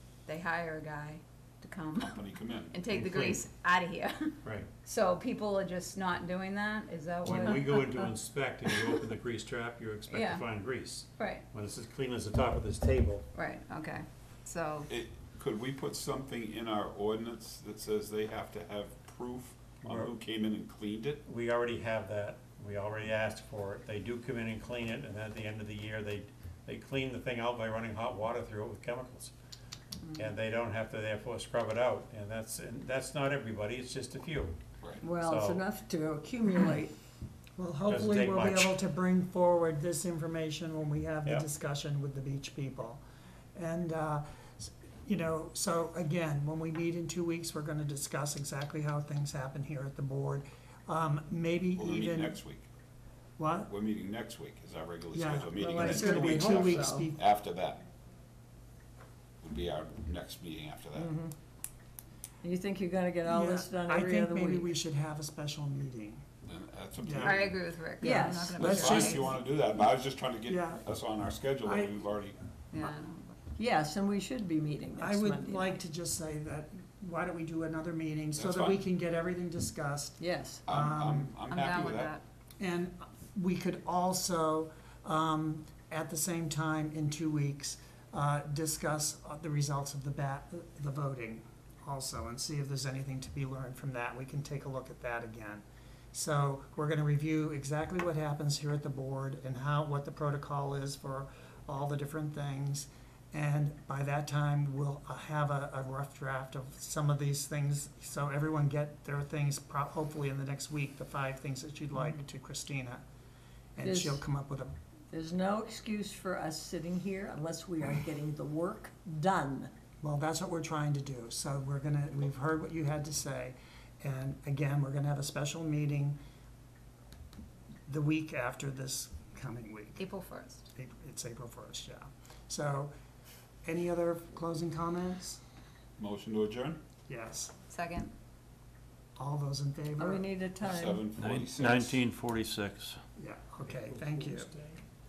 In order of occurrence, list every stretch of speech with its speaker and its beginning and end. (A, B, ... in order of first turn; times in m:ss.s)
0:00.2-0:07.8 A
0:02.0-0:02.8 B
0:02.9-0:03.4 C
0:04.4-0:04.7 C
0:07.2-0:13.2 C
0:07.3-0:08.0 D
0:10.1-0:11.4 A
0:13.3-0:14.9 A
0:14.9-0:21.2 B
0:19.8-0:20.1 C
0:21.2-0:29.3 C
0:30.1-0:34.6 C
0:35.0-0:37.0 D
0:35.1-0:35.6 C
0:37.6-0:43.0 E
0:37.9-0:38.8 C
0:43.5-0:52.4 E
0:51.8-0:52.6 B
0:53.4-0:53.7 E
0:53.7-0:57.8 B
0:55.1-0:57.2 E
0:55.5-0:57.1 D
0:59.4-1:01.1 B
1:00.9-1:01.3 D
1:02.4-1:04.7 D
1:03.3-1:06.2 E
1:06.4-1:07.6 B
1:07.0-1:07.4 E
1:07.2-1:09.3 A
1:08.0-1:09.0 D
1:08.0-1:09.3 E
1:08.5-1:12.3 B
1:10.5-1:10.8 E
1:11.6-1:12.0 E
1:12.7-1:13.4 A
1:13.6-1:15.8 D
1:15.0-1:21.4 E
1:18.4-1:18.8 B
1:20.2-1:20.6 D
1:20.7-1:22.2 B
1:21.5-1:22.2 A
1:22.6-1:53.0 E
1:53.8-1:54.7 E
1:53.8-1:54.2 D
1:55.1-1:59.7 D
2:00.0-2:06.2 E
2:07.9-2:10.0 E
2:10.0-2:10.7 A
2:10.7-2:12.9 E
2:13.6-2:15.4 E
2:16.0-2:16.8 B
2:17.1-2:17.5 E
2:17.7-2:18.1 A
2:19.2-2:20.2 E
2:20.0-2:21.0 D
2:20.6-2:22.0 B
2:21.1-2:23.0 C
2:23.2-2:24.5 E
2:23.8-2:24.8 C